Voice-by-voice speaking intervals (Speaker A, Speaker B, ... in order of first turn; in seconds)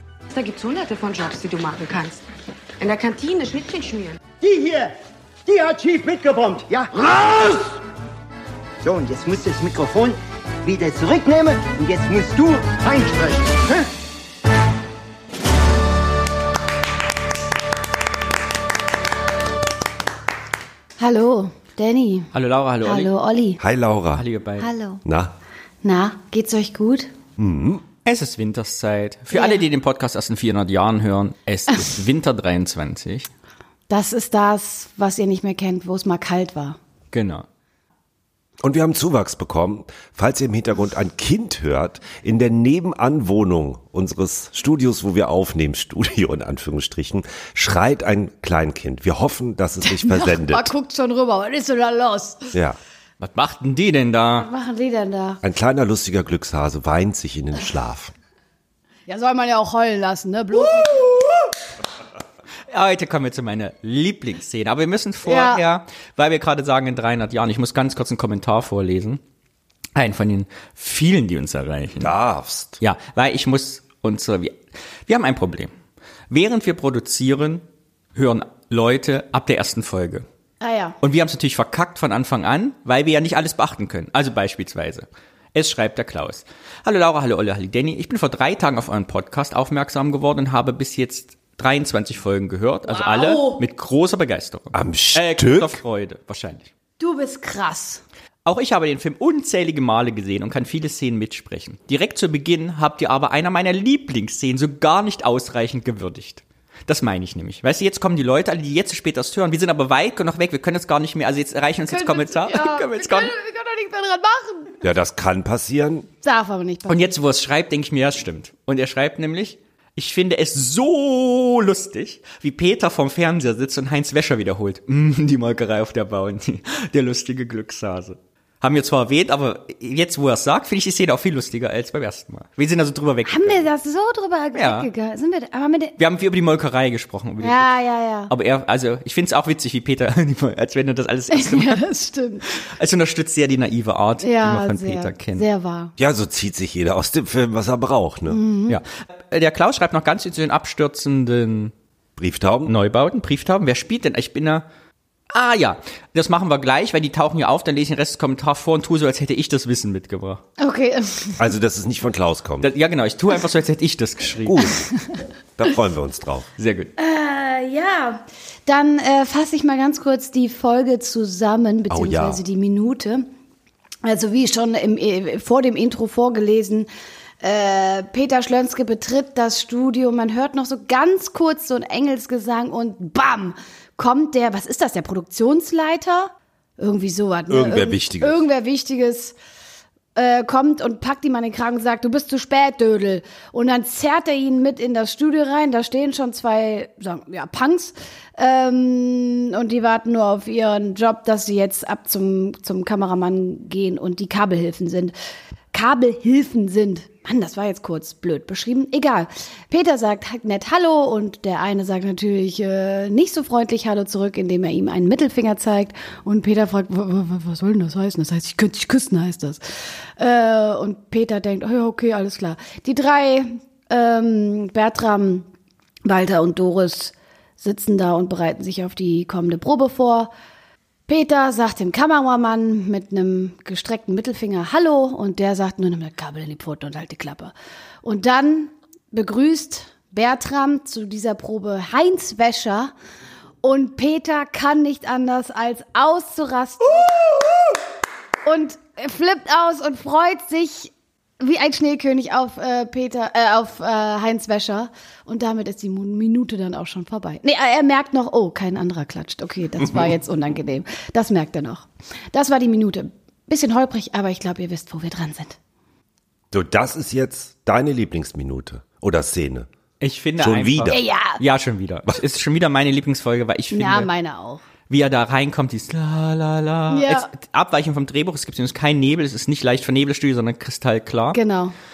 Speaker A: 0.3-2.2, 2.8-4.2
Speaker B: 4.4-7.8, 8.8-13.9
Speaker C: 21.0-22.3, 22.8-23.6, 24.6-25.0, 25.8-27.1, 29.3-29.6, 33.9-36.8, 49.8-52.5, 54.4-55.4, 59.1-61.3, 65.3-65.6, 80.6-81.0, 92.9-93.6, 97.0-98.0, 111.9-114.7, 116.2-117.1, 133.2-135.9, 137.4-138.3, 141.3-142.5, 144.2-145.9, 148.3-148.8, 160.6-161.4, 167.0-173.2, 174.0-176.9, 177.4-189.3, 190.2-205.1, 205.7-219.6, 220.2-225.5, 226.1-230.3, 231.1-237.5, 238.0-242.9, 243.6-247.4, 248.4-265.6, 270.9-271.4, 273.7-274.6, 276.9-277.3, 281.3-281.7
Speaker D: 22.3-23.1, 24.2-24.7, 28.1-33.3, 37.1-37.4, 53.2-54.5, 62.7-69.2, 70.0-72.1, 72.8-75.7, 76.3-77.6, 78.2-80.3, 81.0-96.7, 98.5-113.3, 116.9-133.7, 134.5-134.9, 136.0-137.7, 138.3-141.8, 142.5-145.5, 148.7-151.7, 152.7-154.7, 155.3-160.4, 162.6-164.7, 166.6-166.9, 270.0-274.1, 274.9-281.4
Speaker E: 23.6-24.2, 25.0-25.3, 27.4-27.8, 38.6-50.7, 52.5-52.8, 55.4-58.1, 72.0-72.8, 94.7-95.8, 114.8-116.1, 146.0-148.4, 152.2-152.7, 161.4-162.7, 164.4-164.8, 165.6-166.5, 171.9-172.4, 187.5-188.4, 266.5-269.7, 270.4-271.0